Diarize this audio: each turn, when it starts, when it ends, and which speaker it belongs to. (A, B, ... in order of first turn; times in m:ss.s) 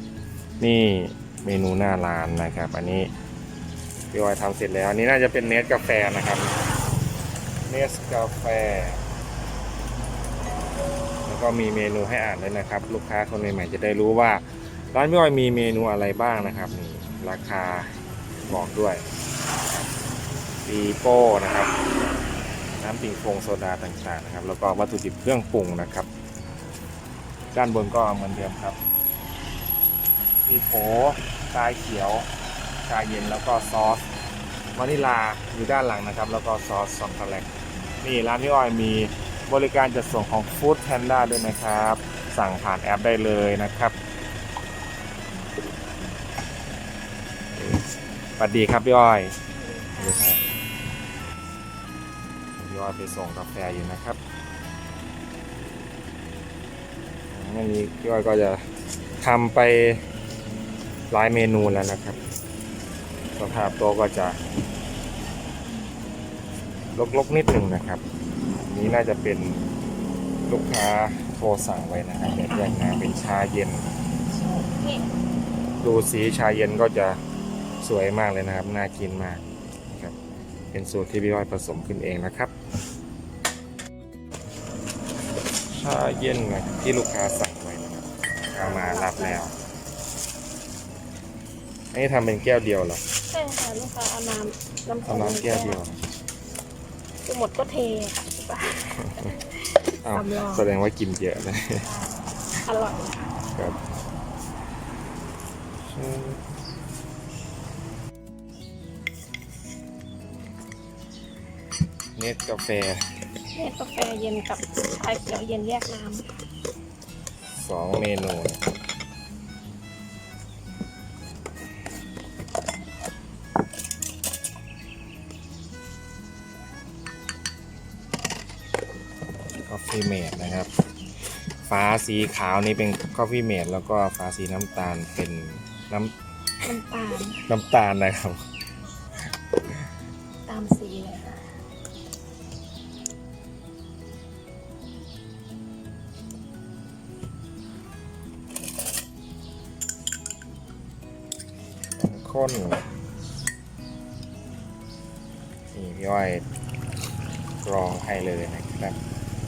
0:00.6-0:03.1 A
0:04.1-0:06.6 A
0:07.7-0:09.0 A
0:11.3-0:17.9 A
0:18.5-0:19.0 A
0:20.6-0:21.8 A
0:22.8-0:26.1 A
0:27.5-0:28.8 A
0:30.5-0:32.3 A
0:32.9-0:34.0 A
0:34.8-0:37.5 A
0:38.0-0:44.0 A
0:47.5-0:47.9 A
0:48.4-0:49.4 A
0:49.5-0:50.4 B
0:50.0-0:50.4 A
0:52.6-0:54.2 A
0:57.3-0:58.6 A
0:59.2-1:00.0 A
1:01.1-1:02.2 A
1:03.4-1:04.4 A
1:07.0-1:08.0 A
1:08.6-1:09.7 A
1:10.5-1:13.9 A
1:14.4-1:15.1 B
1:15.8-1:17.2 A
1:17.8-1:20.2 A
1:20.7-1:22.5 A
1:25.7-1:29.5 A
1:28.6-1:29.4 B
1:31.9-1:33.0 A
1:33.3-1:35.8 B
1:35.1-1:36.0 A
1:37.2-1:40.7 B
1:39.0-1:39.3 A
1:40.0-1:41.9 A
1:41.8-1:43.3 B
1:43.5-1:43.8 A
1:45.8-1:46.4 A
1:52.2-1:53.0 A
1:53.5-1:56.3 B
1:57.6-1:58.6 A
2:09.7-2:10.7 A
2:11.6-2:16.1 A
2:16.6-2:17.4 B
2:17.4-2:18.4 A
2:20.5-2:21.5 B
2:32.0-2:32.9 A
2:35.7-2:36.4 A
2:37.6-2:39.0 A